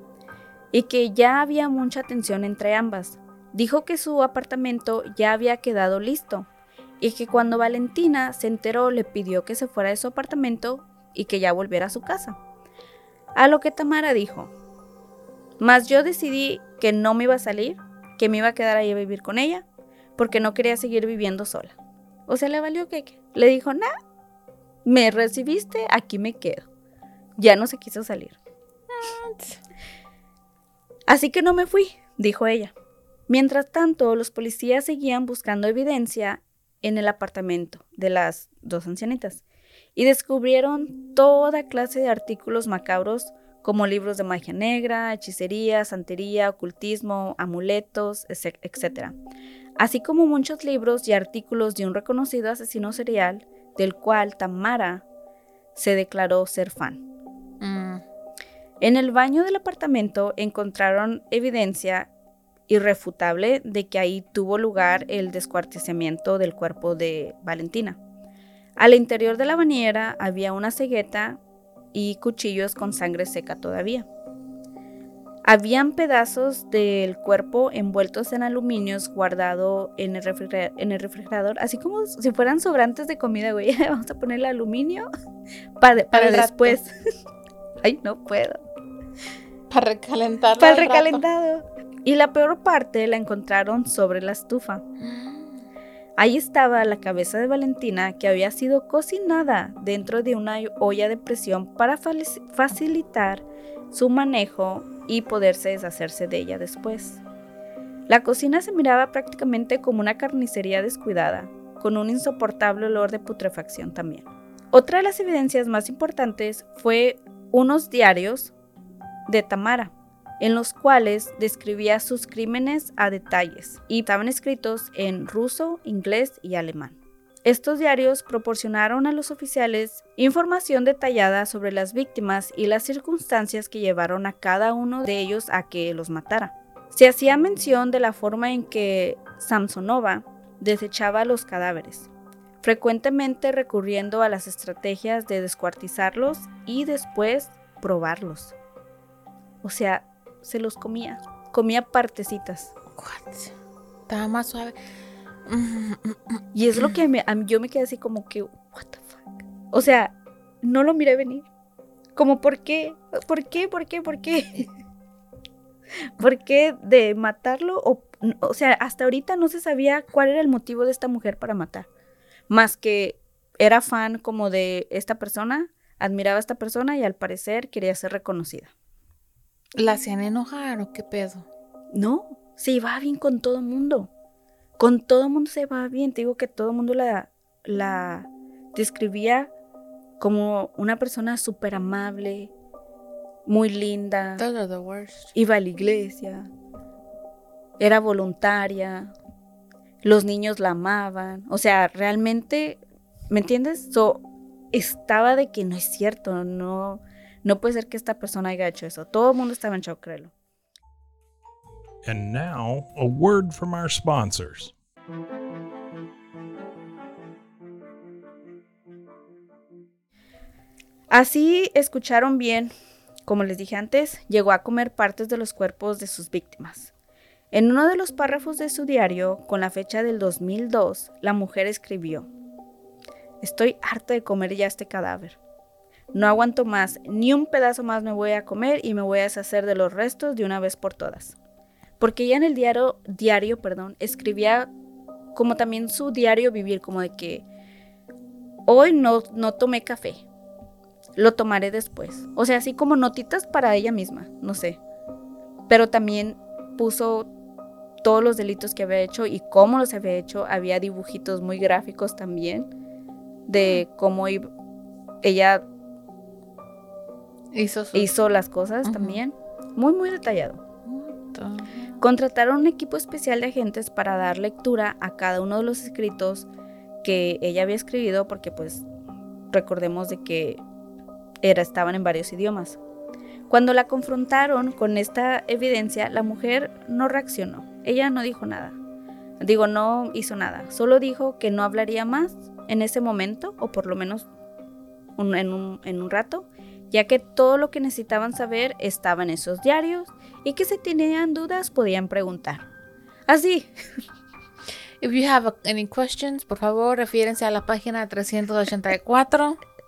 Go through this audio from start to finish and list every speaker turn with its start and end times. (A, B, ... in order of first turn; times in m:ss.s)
0:00.7-0:06.5 A
0:07.0-0:12.4 A
0:13.4-0:14.5 A
0:15.6-0:19.6 A
0:20.2-0:21.7 A
0:22.3-0:23.9 A
0:24.8-0:26.6 A
0:27.4-0:28.4 A
0:28.9-0:29.6 B
0:31.1-0:32.7 A
0:33.3-0:39.4 A
0:40.0-0:49.1 A
0:49.8-0:55.0 A
0:55.7-0:57.0 A
0:57.6-0:58.0 B
0:58.8-1:02.1 A
1:02.7-1:08.0 A
1:08.8-1:11.4 A
1:11.9-1:14.1 A
1:15.4-1:25.0 A
1:25.8-1:26.9 A
1:26.1-1:26.8 B
1:27.8-1:28.6 A
1:29.7-1:31.2 B
1:30.6-1:34.8 A
1:35.0-1:35.6 B
1:36.2-1:47.2 A
1:48.1-1:58.5 A
1:59.3-2:22.1 A
2:22.6-2:28.5 A
2:29.6-2:32.7 A
2:32.9-2:33.5 B
2:34.1-2:34.8 B
2:35.4-2:37.0 B
2:36.5-2:41.4 A
2:42.2-2:44.7 A
2:46.2-2:51.9 A
2:52.5-2:58.7 A
2:59.8-3:01.4 B
3:01.9-3:04.1 A
3:04.8-3:09.5 A
3:10.2-3:12.5 A
3:13.4-3:14.4 A
3:14.4-3:15.3 B
3:15.3-3:16.5 A
3:17.8-3:19.1 A
3:20.0-3:30.3 A
3:32.0-3:34.7 C
3:41.1-3:42.7 A
3:43.3-3:46.9 A
3:47.5-3:52.3 A
3:53.4-3:55.4 A
3:56.1-4:01.3 A
4:02.0-4:04.7 A
4:05.3-4:07.4 A
4:08.7-4:10.2 A
4:11.2-4:14.8 A
4:15.7-4:17.3 A
4:18.0-4:22.7 A
4:23.5-4:24.5 A
4:25.2-4:25.6 A
4:27.5-4:28.1 B
4:27.9-4:30.6 A
4:28.8-4:29.2 B
4:30.8-4:31.9 B
4:32.0-4:36.5 A
4:37.0-4:38.8 A
4:39.5-4:40.6 A
4:41.4-4:42.8 A
4:43.5-4:48.8 A
4:49.4-4:54.2 A
4:55.2-5:02.6 A
5:03.3-5:03.7 A
5:05.0-5:09.6 B